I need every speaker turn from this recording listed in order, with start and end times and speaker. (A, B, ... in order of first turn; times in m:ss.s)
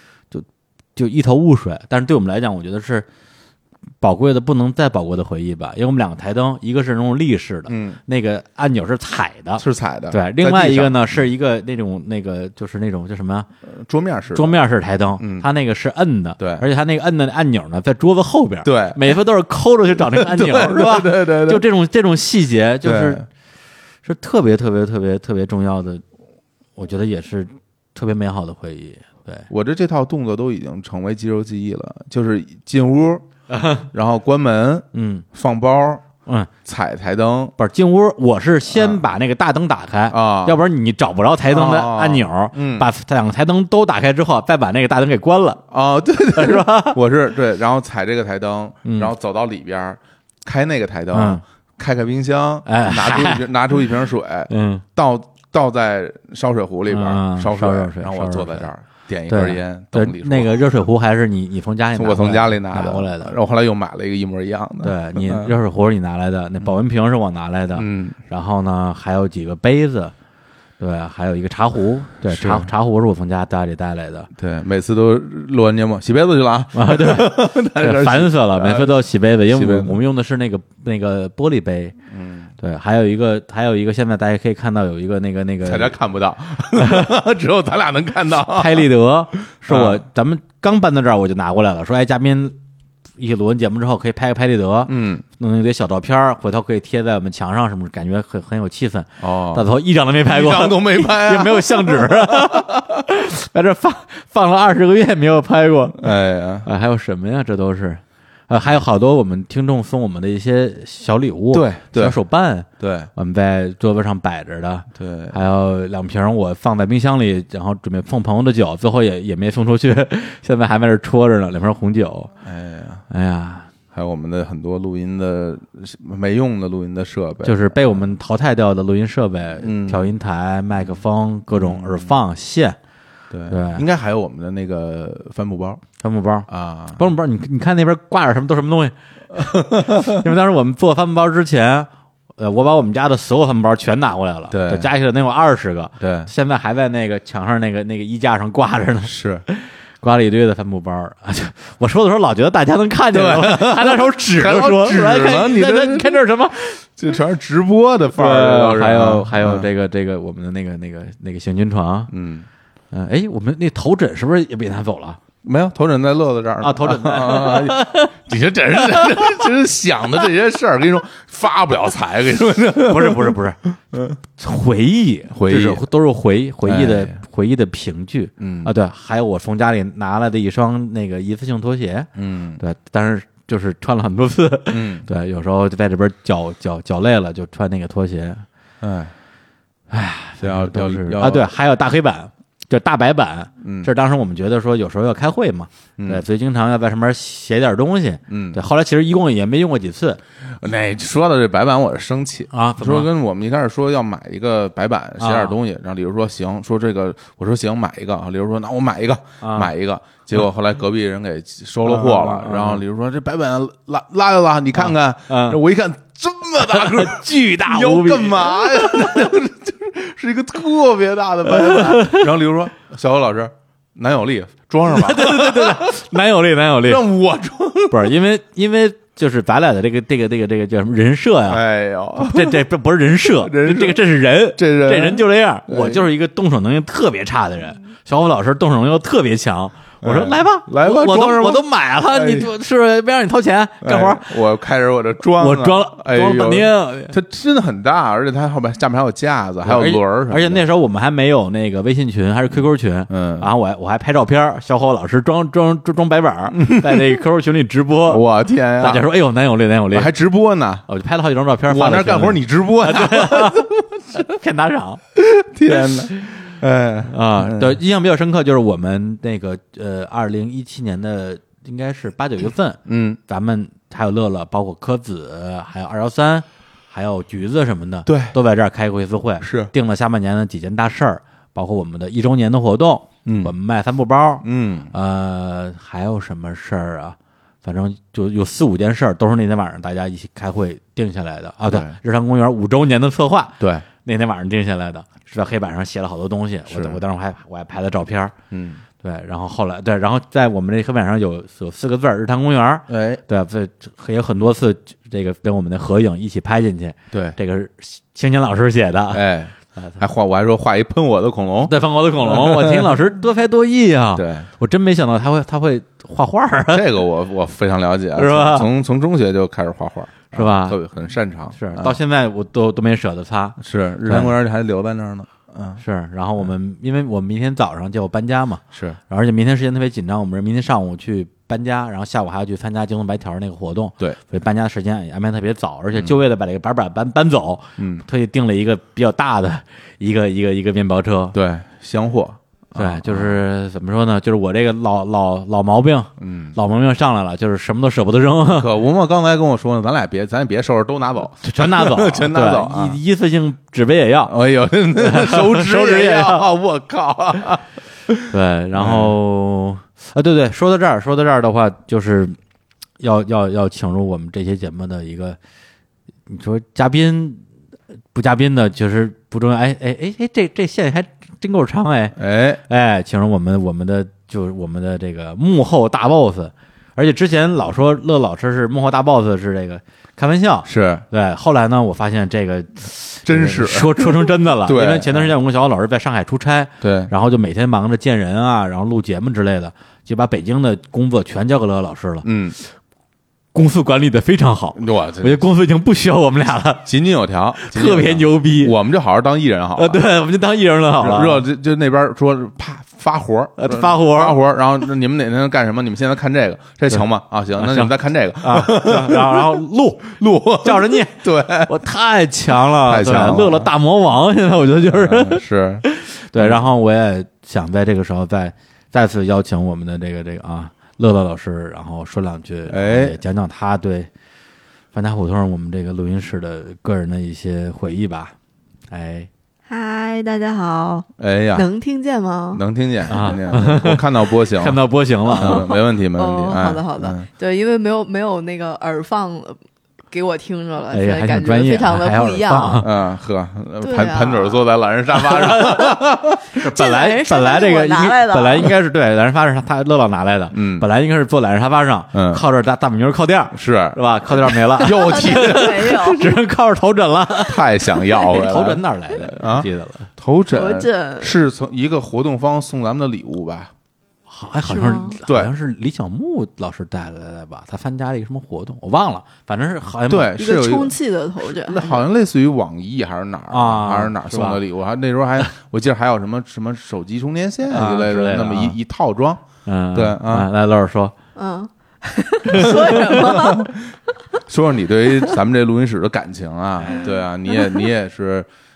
0:00.3-0:03.0 A
0:04.0-0:13.5 A
0:07.7-0:08.0 B
0:09.6-0:11.2 B
0:13.6-0:14.6 B
0:14.3-0:23.2 A
0:15.2-0:15.5 B
0:16.4-0:16.6 B
0:18.6-0:19.2 B
0:19.9-0:21.6 B
0:22.8-0:23.2 B
0:24.0-0:26.0 A
0:26.8-0:29.5 A
0:29.5-0:33.2 B
0:33.5-0:33.8 A
0:33.8-0:36.0 B
0:34.9-0:35.2 A
0:36.6-0:37.5 B
0:37.6-0:45.6 A
0:38.7-0:39.0 B
0:40.1-0:40.6 B
0:41.5-0:42.9 B
0:45.7-1:00.6 B
0:46.3-0:47.0 A
0:48.8-0:49.1 A
0:51.1-0:51.4 A
0:52.6-0:53.5 A
0:54.5-0:54.8 A
0:56.9-0:58.7 A
0:59.3-1:03.3 A
1:02.0-1:05.5 B
1:04.8-1:10.1 A
1:07.8-1:08.2 B
1:10.8-1:14.3 A
1:12.2-1:12.7 B
1:14.3-1:20.0 B
1:16.7-1:21.9 A
1:22.1-1:22.5 B
1:22.6-1:26.0 A
1:25.6-1:28.9 B
1:26.8-1:27.0 A
1:28.5-1:32.6 A
1:29.6-1:30.0 B
1:33.2-1:46.1 A
1:34.9-1:35.2 B
1:39.2-1:39.6 B
1:40.2-1:42.8 B
1:46.0-1:46.7 B
1:46.6-2:02.3 A
1:51.5-1:52.2 B
1:52.8-1:53.1 B
1:54.9-1:55.4 B
2:02.4-2:03.0 B
2:03.1-2:03.7 A
2:03.9-2:08.0 B
2:07.4-2:12.8 A
2:09.6-2:10.1 B
2:10.8-2:12.2 B
2:13.3-2:15.8 B
2:13.5-2:13.8 A
2:16.0-2:36.8 A
2:16.5-2:17.0 B
2:19.4-2:20.2 B
2:24.5-2:24.9 B
2:26.0-2:26.3 B
2:29.1-2:29.4 B
2:33.1-2:36.2 B
2:37.0-2:39.7 B
2:38.1-2:42.1 A
2:42.1-2:42.5 B
2:42.9-2:45.2 A
2:45.4-2:53.4 B
2:46.6-2:48.1 A
2:48.9-2:49.2 A
2:52.8-2:53.6 A
2:53.9-2:54.2 B
2:54.4-3:02.1 A
2:55.3-2:55.8 B
2:56.6-2:57.2 B
2:58.4-2:58.7 B
3:02.2-3:02.6 B
3:02.6-3:08.4 A
3:04.7-3:05.1 B
3:08.8-3:09.1 B
3:09.9-3:20.2 A
3:10.4-3:11.5 B
3:13.6-3:13.9 B
3:16.0-3:16.2 B
3:18.3-3:18.6 B
3:20.5-3:46.0 B
3:22.5-3:23.1 A
3:25.2-3:25.5 A
3:29.4-3:29.7 A
3:31.8-3:32.8 A
3:34.8-3:35.6 A
3:36.6-3:38.9 A
3:41.5-3:42.2 A
3:44.8-3:47.0 A
3:46.8-3:48.1 B
3:47.9-3:51.6 A
3:51.5-3:52.6 B
3:52.2-4:04.3 A
3:53.2-3:54.0 B
3:54.6-3:56.0 B
4:00.0-4:02.5 B
4:03.8-4:10.6 B
4:05.4-4:07.1 A
4:09.6-4:18.2 A
4:13.1-4:13.5 B
4:16.6-4:17.2 B
4:18.1-4:19.0 B
4:18.8-4:20.1 A
4:19.9-4:20.8 B
4:20.9-4:25.0 A
4:21.7-4:24.0 B
4:25.2-4:27.8 B
4:27.1-4:58.3 A
4:32.8-4:33.2 B
4:38.0-4:38.4 B
4:39.4-4:39.7 B
4:43.2-4:43.5 B
4:44.4-4:44.9 B
4:51.6-4:52.0 B
4:53.6-4:53.8 B
4:56.7-4:57.0 B
4:58.5-4:58.8 B
4:59.0-5:09.2 A
5:02.9-5:03.2 B
5:07.1-5:07.4 B
5:09.1-5:12.9 B
5:09.7-5:10.0 A
5:11.6-5:16.8 A
5:14.1-5:14.5 B
5:16.7-5:22.0 B
5:18.2-5:18.7 A
5:20.3-5:20.8 A
5:21.5-5:24.3 A
5:23.6-5:25.8 B
5:25.8-5:41.4 A
5:28.7-5:29.0 B
5:37.8-5:38.0 B
5:41.3-5:43.4 B
5:42.8-5:48.7 A
5:46.2-5:46.6 B
5:48.5-5:53.0 B
5:51.4-5:54.3 A
5:54.3-5:58.2 B
5:55.0-5:56.4 A
5:58.3-6:02.4 A
5:58.8-5:59.1 B
6:03.0-6:05.4 A
6:06.3-6:07.4 A
6:08.1-6:32.2 A
6:12.2-6:12.6 B
6:20.6-6:21.0 B
6:23.2-6:25.3 B
6:26.8-6:27.1 B
6:32.2-6:32.6 B
6:33.5-6:36.9 A
6:34.8-6:35.4 B
6:36.8-6:40.0 B
6:37.6-6:38.8 A
6:39.8-6:41.4 A
6:41.0-6:51.7 B
6:43.6-6:44.4 A
6:47.5-7:04.1 A
6:52.7-6:53.7 B
6:54.9-6:55.8 B
6:56.4-6:56.6 B
7:02.7-7:03.2 B
7:04.9-7:08.3 A
7:08.9-7:09.3 A
7:09.7-7:12.6 C
7:11.2-7:11.7 B
7:12.5-7:14.8 B
7:13.1-7:15.6 A
7:15.3-7:19.6 C
7:15.3-7:17.3 B
7:20.1-7:22.8 C
7:20.9-7:22.9 A
7:22.8-7:26.5 B
7:23.8-7:24.6 C
7:26.5-7:40.1 A
7:26.6-7:28.7 C
7:30.5-7:30.9 B
7:32.1-7:32.4 B
7:33.5-7:36.2 B
7:34.8-7:36.2 C
7:37.4-7:43.7 B
7:40.5-7:41.4 C
7:44.3-7:50.3 A
7:44.7-7:45.2 C
7:45.2-7:45.5 B
7:50.1-8:00.5 B
7:50.4-7:52.0 C
7:53.5-7:54.6 A
7:57.7-7:58.8 A
7:59.6-8:01.1 A
8:01.4-8:03.7 C
8:02.5-8:03.0 A
8:02.6-8:03.8 B
8:04.4-8:08.5 B
8:06.9-8:07.8 C